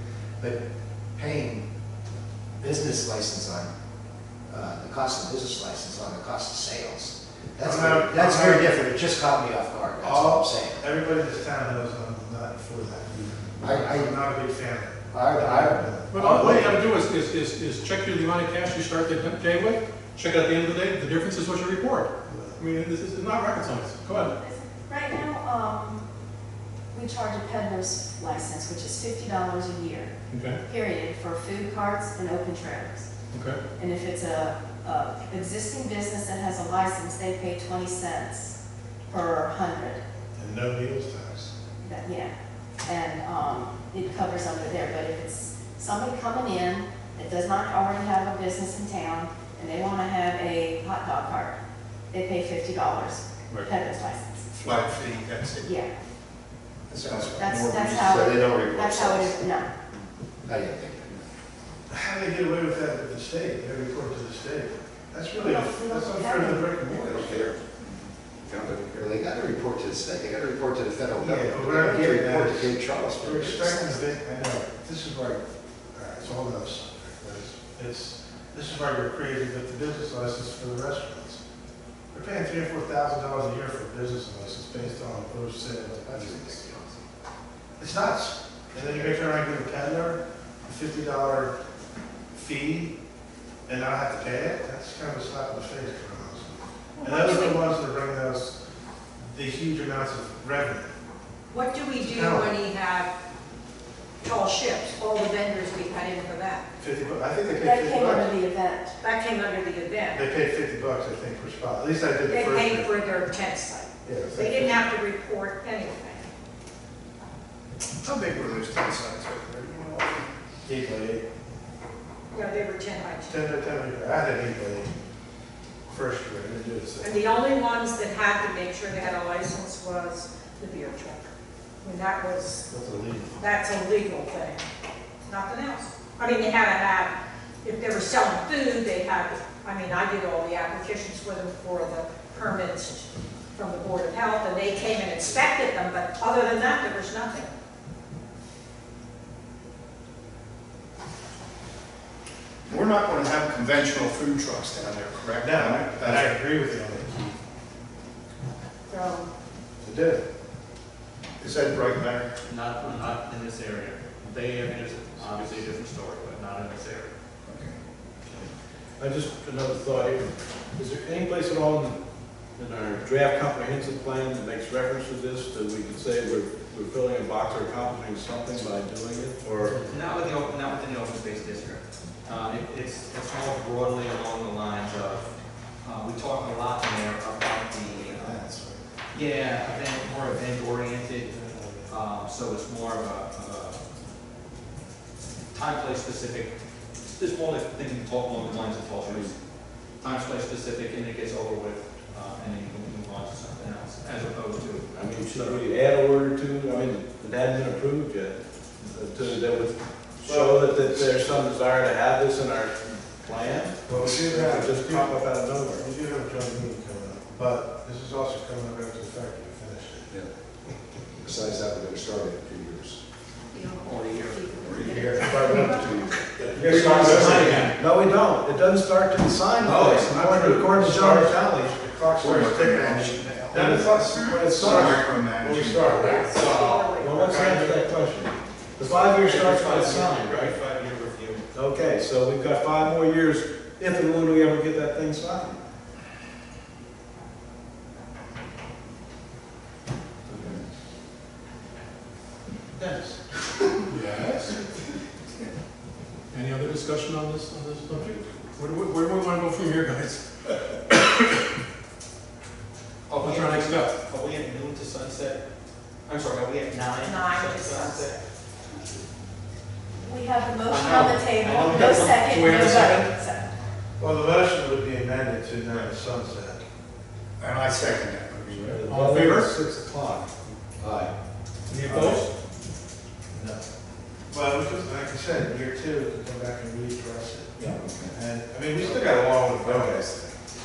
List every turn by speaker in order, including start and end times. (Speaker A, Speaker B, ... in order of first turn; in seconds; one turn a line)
Speaker A: 0.4-0.6
Speaker A: 1.1-1.7
Speaker A: 2.6-3.7
Speaker A: 4.5-10.8
Speaker B: 7.6-8.7
Speaker B: 10.0-16.7
Speaker A: 13.6-14.1
Speaker A: 15.1-16.7
Speaker C: 16.1-24.3
Speaker B: 22.2-22.6
Speaker D: 24.4-26.0
Speaker D: 26.9-30.1
Speaker C: 30.3-30.6
Speaker D: 30.6-33.1
Speaker C: 33.3-33.6
Speaker D: 33.8-38.5
Speaker D: 39.1-40.0
Speaker B: 40.4-41.5
Speaker D: 41.8-42.3
Speaker D: 42.8-51.5
Speaker D: 52.1-54.5
Speaker E: 54.5-55.7
Speaker D: 55.6-55.9
Speaker E: 56.9-58.2
Speaker A: 57.0-57.3
Speaker D: 57.4-59.7
Speaker A: 58.0-59.4
Speaker A: 60.5-61.1
Speaker B: 61.9-67.5
Speaker D: 65.3-66.9
Speaker A: 66.9-67.3
Speaker E: 67.1-69.1
Speaker A: 69.0-74.0
Speaker B: 71.2-81.4
Speaker B: 82.1-86.7
Speaker A: 85.7-87.0
Speaker B: 87.8-91.5
Speaker B: 92.3-92.9
Speaker B: 93.7-98.6
Speaker F: 97.0-97.6
Speaker B: 99.2-100.9
Speaker F: 101.5-103.1
Speaker B: 102.0-102.5
Speaker F: 104.2-106.6
Speaker B: 106.8-108.4
Speaker D: 107.5-109.0
Speaker F: 109.0-110.2
Speaker B: 110.1-112.9
Speaker F: 112.3-116.3
Speaker B: 114.0-114.8
Speaker E: 118.0-120.3
Speaker B: 120.7-121.2
Speaker F: 122.3-123.4
Speaker B: 123.3-124.9
Speaker B: 125.9-127.1
Speaker F: 127.0-131.3
Speaker F: 131.8-132.7
Speaker B: 132.7-133.4
Speaker F: 133.4-134.6
Speaker F: 135.2-147.5
Speaker E: 152.7-156.3
Speaker B: 155.4-157.4
Speaker D: 158.9-159.3
Speaker B: 159.8-160.2
Speaker E: 161.4-162.3
Speaker G: 162.5-167.1
Speaker E: 167.5-167.7
Speaker H: 169.0-172.0
Speaker H: 172.6-179.8
Speaker G: 179.8-185.2
Speaker G: 185.8-188.4
Speaker B: 187.8-188.8
Speaker G: 189.1-191.3
Speaker B: 189.4-190.1
Speaker B: 191.2-191.9
Speaker G: 191.9-193.8
Speaker G: 195.5-196.5
Speaker G: 197.0-199.3
Speaker G: 200.0-204.9
Speaker H: 204.9-215.8
Speaker B: 210.2-211.1
Speaker B: 213.8-215.2
Speaker B: 215.7-220.1
Speaker A: 221.2-223.0
Speaker G: 223.8-225.1
Speaker E: 224.7-227.4
Speaker A: 224.8-225.8
Speaker B: 225.3-225.7
Speaker H: 225.5-225.8
Speaker H: 226.5-231.6
Speaker G: 226.6-227.7
Speaker B: 226.7-227.5
Speaker G: 229.6-230.1
Speaker B: 230.1-236.3
Speaker E: 230.6-230.9
Speaker E: 232.2-236.2
Speaker H: 232.8-235.1
Speaker H: 235.6-236.4
Speaker F: 236.0-237.1
Speaker G: 236.3-237.8
Speaker H: 237.0-240.6
Speaker B: 237.3-237.7
Speaker G: 238.8-241.4
Speaker H: 241.5-245.6
Speaker B: 252.8-253.1
Speaker C: 253.9-254.6
Speaker C: 256.3-261.4
Speaker G: 263.1-265.4
Speaker C: 263.2-263.9
Speaker G: 266.1-268.2
Speaker F: 267.0-268.2
Speaker D: 270.0-273.5
Speaker G: 270.7-272.3
Speaker C: 271.7-273.1
Speaker B: 274.0-276.6
Speaker E: 277.4-278.8
Speaker H: 278.5-281.1
Speaker C: 278.8-279.5
Speaker C: 281.7-282.3
Speaker H: 281.9-282.2
Speaker B: 283.3-283.6
Speaker B: 284.3-287.5
Speaker A: 287.8-288.1
Speaker B: 288.1-290.0
Speaker H: 288.8-290.3